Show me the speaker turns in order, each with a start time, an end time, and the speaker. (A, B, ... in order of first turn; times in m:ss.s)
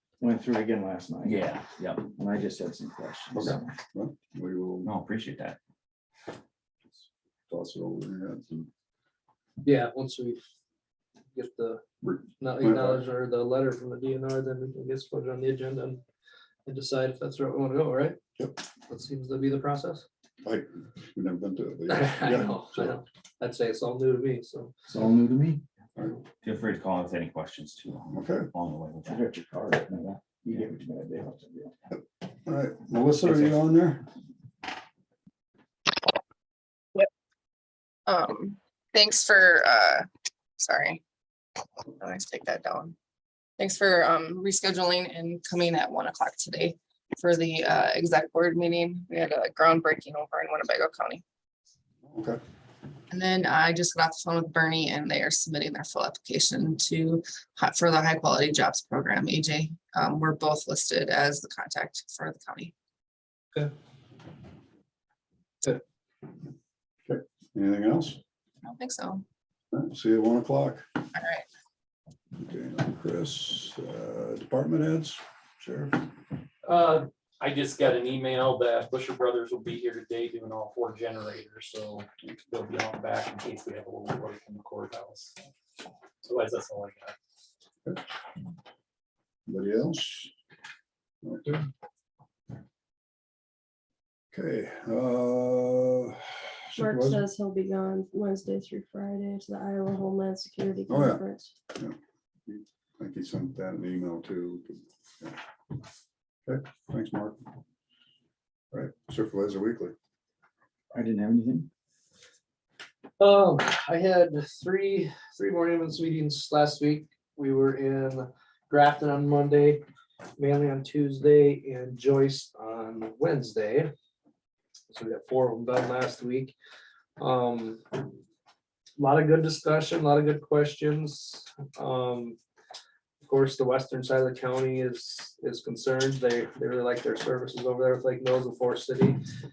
0:00.2-0:01.4 A
0:01.2-0:02.1 B
0:02.0-0:03.7 A
0:03.3-0:04.9 C
0:04.8-0:05.6 B
0:07.5-0:08.7 C
0:09.6-0:10.4 D
0:11.3-0:11.8 D
0:12.0-0:13.0 C
0:12.4-0:16.0 D
0:16.7-0:18.2 D
0:18.9-0:20.0 D
0:20.4-0:23.0 C
0:21.9-0:24.7 D
0:24.9-0:25.6 A
0:26.4-0:29.3 B
0:28.1-0:28.5 C
0:29.1-0:31.7 A
0:31.9-0:34.0 C
0:38.1-0:40.1 E
0:40.6-0:41.0 E
0:42.0-0:43.0 E
0:43.6-0:51.2 E
0:52.0-0:52.4 C
0:53.1-1:02.7 E
1:07.1-1:08.2 C
1:08.7-1:09.2 E
1:09.7-1:10.8 C
1:11.2-1:11.5 E
1:12.4-1:16.0 C
1:16.6-1:25.4 F
1:26.2-1:27.2 F
1:29.5-1:30.3 C
1:31.2-1:31.7 C
1:34.3-1:37.2 C
1:36.7-1:41.5 G
1:40.9-1:41.2 C
1:42.5-1:45.4 C
1:46.5-1:47.4 C
1:48.7-1:49.9 C
1:50.9-1:51.7 A
1:53.2-1:59.8 D
2:00.4-2:03.9 D
2:04.9-2:06.5 D
2:07.2-2:08.0 D
2:09.0-2:12.4 D
2:13.2-2:19.2 D